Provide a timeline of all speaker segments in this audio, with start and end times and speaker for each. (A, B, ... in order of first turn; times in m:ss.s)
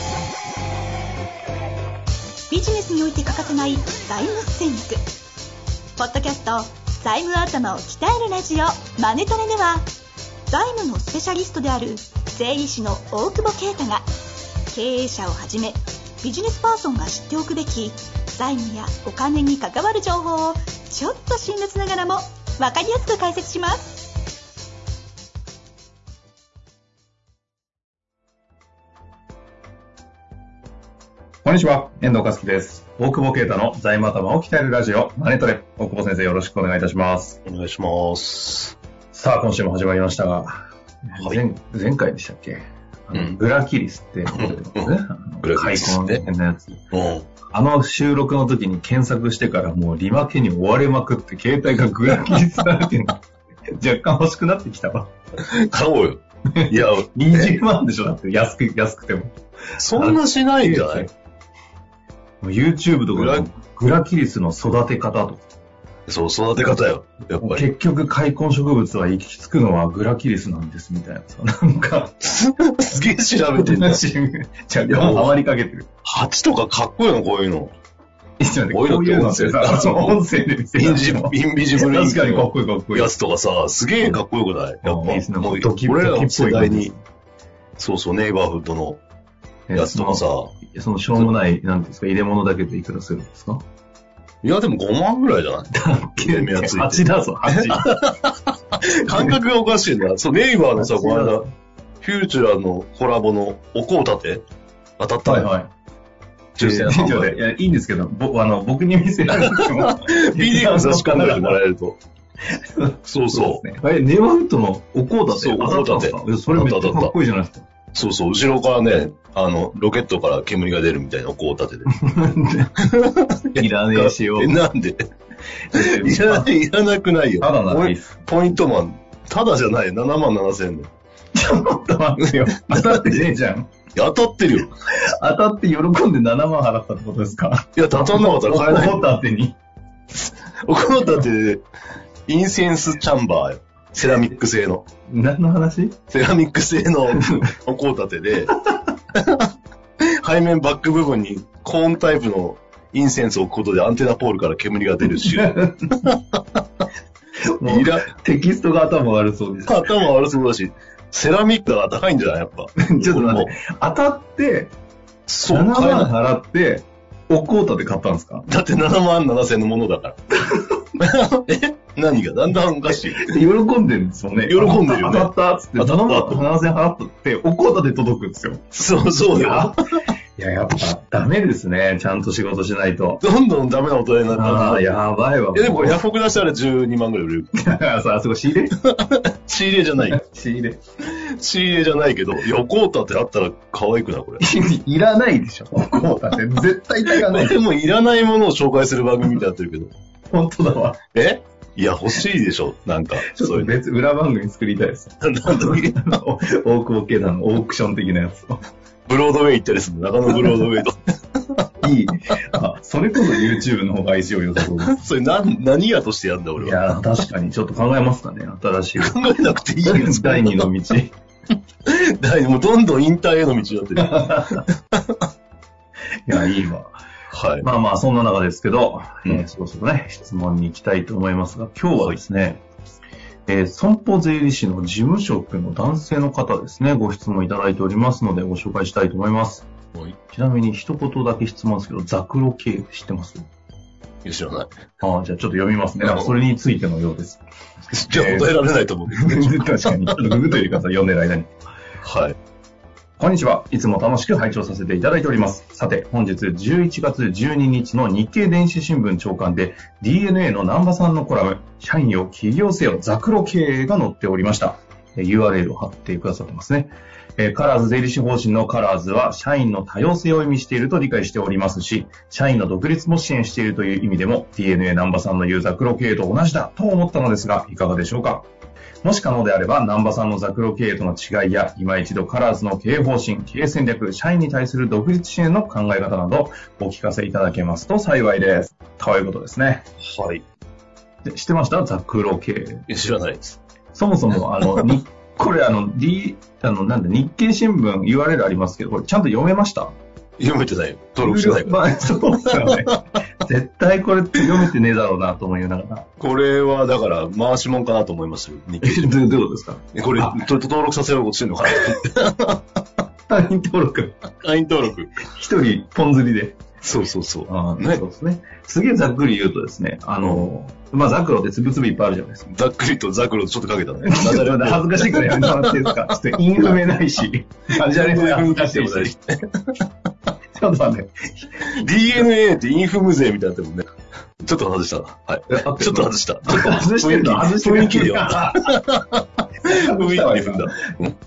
0:02.5-0:05.0 A
0:06.0-0:09.9 A
0:10.5-0:14.1 A
0:14.7-0:24.1 A
0:31.4-0:37.4 B
0:37.4-0:38.8 C
0:39.1-0:46.8 B
0:43.1-0:43.4 C
0:44.3-0:46.3 C
0:46.9-0:47.3 C
0:47.5-0:53.2 B
0:53.8-0:55.1 B
0:55.4-0:57.6 C
0:56.6-1:01.1 B
0:59.8-1:01.1 C
1:02.4-1:05.5 B
1:03.1-1:03.5 C
1:06.1-1:07.7 C
1:07.4-1:12.2 B
1:12.2-1:14.0 C
1:13.6-1:15.9 B
1:14.9-1:15.4 C
1:16.0-1:17.7 C
1:18.4-1:23.1 B
1:18.7-1:20.2 C
1:20.8-1:26.9 C
1:24.8-1:27.0 B
1:27.8-1:29.0 C
1:29.7-1:33.6 B
1:29.7-1:30.6 C
1:34.4-1:41.5 C
1:35.7-1:38.0 B
1:39.1-1:39.4 B
1:40.8-1:41.5 B
1:42.0-1:44.4 C
1:45.0-1:45.5 C
1:45.2-1:45.7 B
1:46.6-1:47.4 C
1:46.6-1:51.6 B
1:49.3-1:52.0 C
1:52.6-1:57.7 B
1:53.1-1:53.6 C
1:55.3-1:57.1 C
1:57.9-2:01.9 C
2:01.9-2:02.8 B
2:02.8-2:05.0 C
2:03.6-2:04.6 B
2:05.7-2:06.5 B
2:05.7-2:10.9 C
2:07.4-2:08.2 B
2:11.3-2:13.7 B
2:12.2-2:13.3 C
2:14.0-2:14.7 C
2:15.1-2:19.6 B
2:17.8-2:19.1 C
2:20.2-2:21.6 C
2:22.3-2:24.9 C
2:25.1-2:26.0 B
2:26.1-2:28.5 C
2:27.1-2:27.4 B
2:28.5-2:28.8 B
2:29.2-2:29.5 C
2:30.0-2:36.4 C
2:35.3-2:35.9 B
2:37.5-2:39.8 B
2:37.7-2:38.1 C
2:39.6-2:43.6 C
2:42.8-2:44.7 B
2:45.3-2:46.1 C
2:45.5-2:48.4 B
2:48.5-2:50.3 C
2:50.4-2:50.8 B
2:51.0-2:53.4 C
2:52.9-2:58.7 B
2:54.5-2:56.5 C
2:58.7-3:00.0 C
2:59.3-2:59.8 B
3:00.4-3:03.2 B
3:03.2-3:04.9 C
3:04.3-3:06.0 B
3:05.5-3:07.5 C
3:07.5-3:08.7 B
3:08.8-3:10.2 C
3:10.1-3:10.8 B
3:11.1-3:14.4 C
3:14.4-3:17.6 B
3:17.1-3:19.9 C
3:20.3-3:21.0 B
3:21.1-3:23.7 C
3:23.3-3:28.6 B
3:25.2-3:26.2 C
3:29.1-3:31.7 C
3:30.3-3:30.6 B
3:31.8-3:35.0 B
3:34.6-3:36.9 C
3:36.6-3:39.2 B
3:39.0-3:40.7 C
3:39.8-3:41.2 B
3:41.9-3:45.2 C
3:44.0-3:44.5 B
3:46.3-3:47.0 B
3:47.3-3:47.7 C
3:47.6-3:52.6 B
3:53.5-3:59.7 B
4:00.3-4:03.4 B
4:04.2-4:04.9 C
4:05.0-4:07.4 B
4:06.0-4:06.3 C
4:07.9-4:10.4 C
4:08.1-4:08.5 B
4:09.1-4:11.5 B
4:12.0-4:12.4 C
4:13.2-4:38.5 B
4:39.0-4:49.9 B
4:50.0-4:50.4 C
4:51.2-4:52.8 B
4:52.9-4:53.6 C
4:53.9-5:00.0 B
5:00.4-5:03.0 C
5:01.2-5:06.1 B
5:06.2-5:09.2 C
5:08.8-5:10.4 B
5:09.9-5:12.6 C
5:13.3-5:14.2 B
5:14.4-5:15.2 C
5:15.2-5:16.6 B
5:16.8-5:18.0 C
5:17.5-5:22.5 B
5:20.2-5:20.5 C
5:22.5-5:26.8 C
5:24.0-5:29.1 B
5:27.7-5:29.8 C
5:30.6-5:31.8 B
5:31.8-5:33.9 C
5:34.4-5:41.2 C
5:35.5-5:38.7 B
5:39.6-5:40.8 B